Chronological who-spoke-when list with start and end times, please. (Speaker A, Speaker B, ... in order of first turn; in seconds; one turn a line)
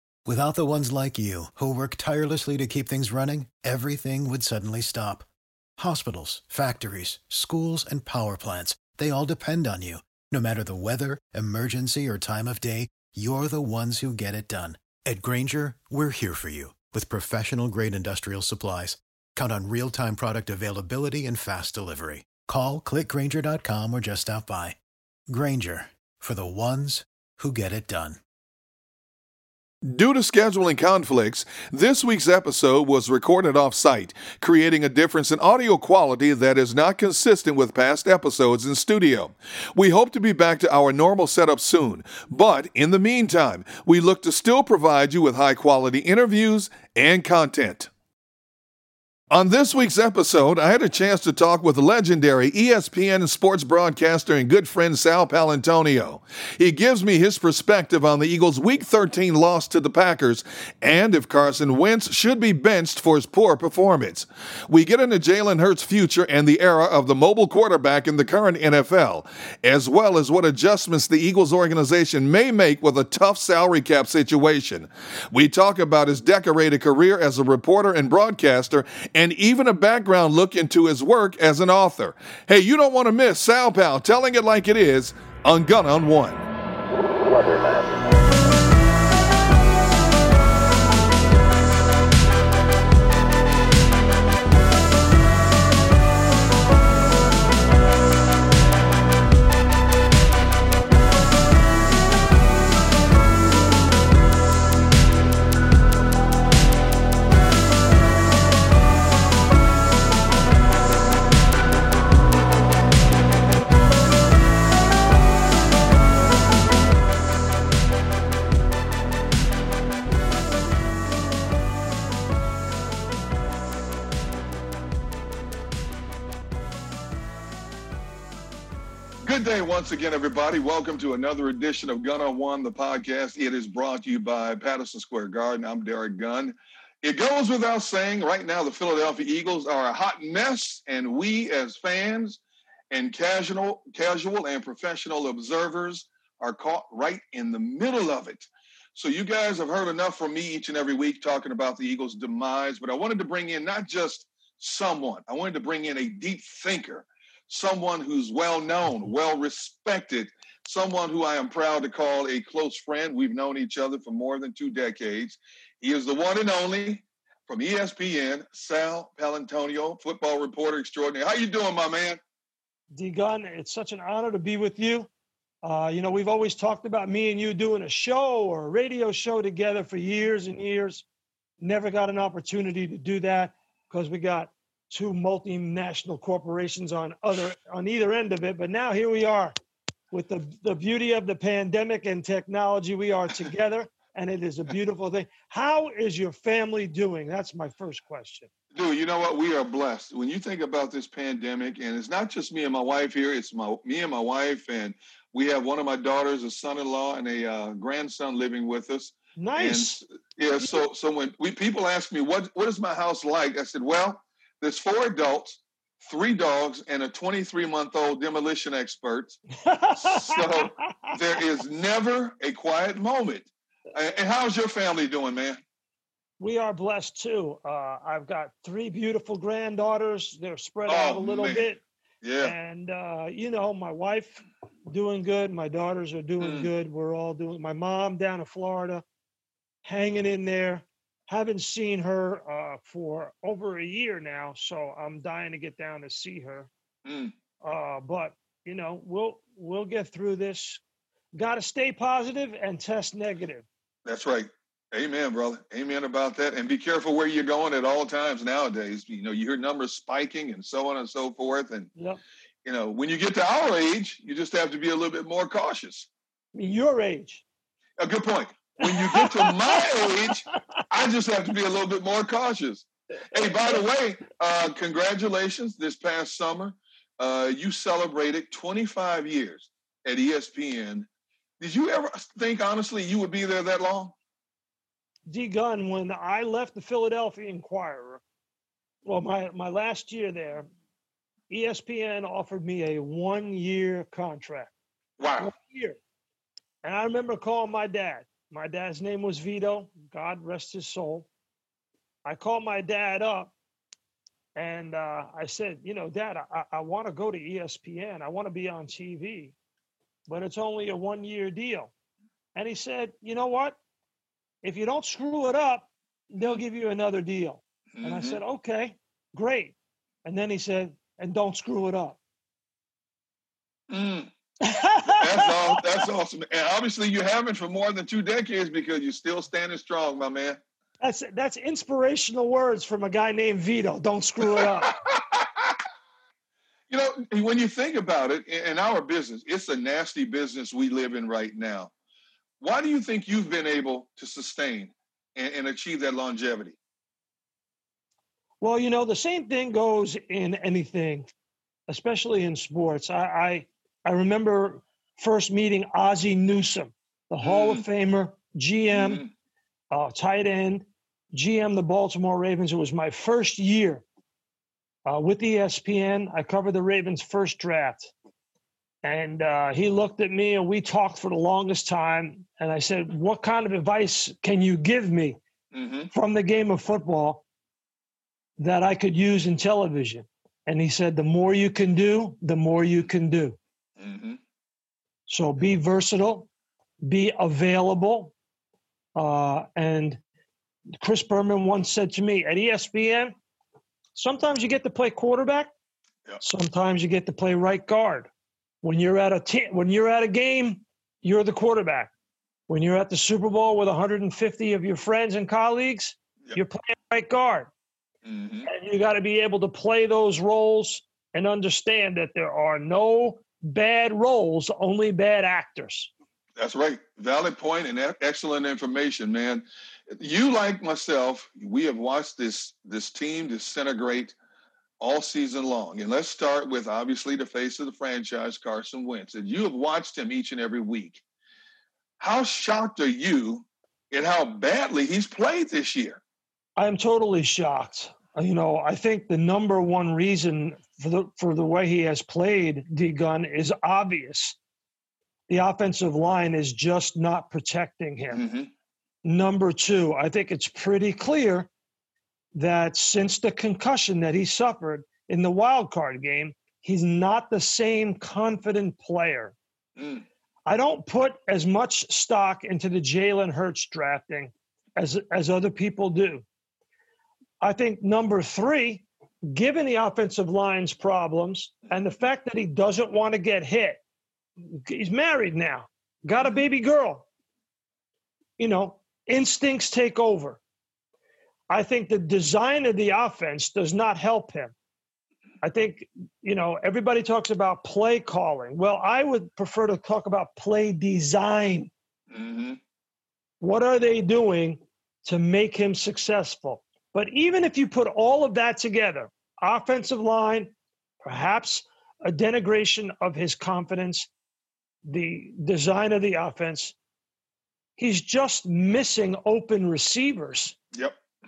Speaker A: 0.2-24.8
Speaker A: 25.3-28.2
Speaker B: 29.8-47.9
Speaker B: 49.3-86.5
Speaker B: 129.2-142.4
Speaker B: 142.9-172.2
Speaker C: 172.9-175.1
Speaker C: 175.6-181.0
Speaker C: 181.6-189.5
Speaker C: 190.1-198.5
Speaker B: 198.7-219.4
Speaker C: 209.4-210.0
Speaker C: 219.6-221.2
Speaker B: 220.0-225.6
Speaker C: 226.4-231.8
Speaker B: 230.9-231.6
Speaker B: 232.2-232.5
Speaker C: 232.4-239.0
Speaker B: 236.4-236.7
Speaker C: 239.8-246.7
Speaker B: 247.0-247.3
Speaker C: 247.6-250.8
Speaker C: 251.3-253.7
Speaker B: 254.1-261.9
Speaker B: 262.6-266.1
Speaker C: 266.5-267.4
Speaker B: 268.0-281.1
Speaker C: 268.8-269.5
Speaker B: 281.6-284.1
Speaker C: 285.3-288.2
Speaker C: 289.0-290.7
Speaker C: 291.5-294.7
Speaker B: 295.2-295.5
Speaker C: 295.4-296.0
Speaker C: 296.8-301.3
Speaker C: 302.2-303.5
Speaker C: 304.6-309.5
Speaker C: 310.3-311.9
Speaker C: 312.5-313.8
Speaker C: 314.6-322.2
Speaker B: 318.0-318.4
Speaker B: 323.9-324.3
Speaker C: 324.6-326.0
Speaker B: 325.2-330.6
Speaker C: 331.0-334.9
Speaker B: 334.6-335.8
Speaker B: 336.9-341.9
Speaker B: 342.6-346.8
Speaker C: 348.6-351.3
Speaker C: 351.9-359.2
Speaker B: 357.4-357.8
Speaker B: 358.9-359.3
Speaker C: 359.9-364.0
Speaker C: 365.1-368.1
Speaker C: 369.0-375.4
Speaker B: 375.7-376.1
Speaker C: 376.1-377.4
Speaker C: 378.6-383.6
Speaker B: 384.0-384.4
Speaker C: 385.3-386.5
Speaker C: 387.0-388.3
Speaker C: 389.1-390.2
Speaker C: 391.0-393.3
Speaker C: 394.1-395.7
Speaker C: 396.4-398.3
Speaker C: 398.8-402.1
Speaker C: 402.7-407.7
Speaker B: 408.2-408.7
Speaker C: 408.6-416.1
Speaker B: 416.6-424.4
Speaker B: 425.0-431.2
Speaker B: 432.2-436.2
Speaker C: 436.8-444.6
Speaker C: 445.5-448.4
Speaker B: 448.3-448.7
Speaker C: 449.2-451.7
Speaker C: 452.5-459.5
Speaker B: 460.0-460.2
Speaker C: 460.7-466.4
Speaker C: 467.6-474.0
Speaker C: 474.7-477.2
Speaker C: 478.6-480.6
Speaker C: 481.7-484.7
Speaker C: 485.6-491.9
Speaker B: 492.3-492.8
Speaker C: 493.6-504.3
Speaker C: 505.1-506.9
Speaker C: 508.0-510.8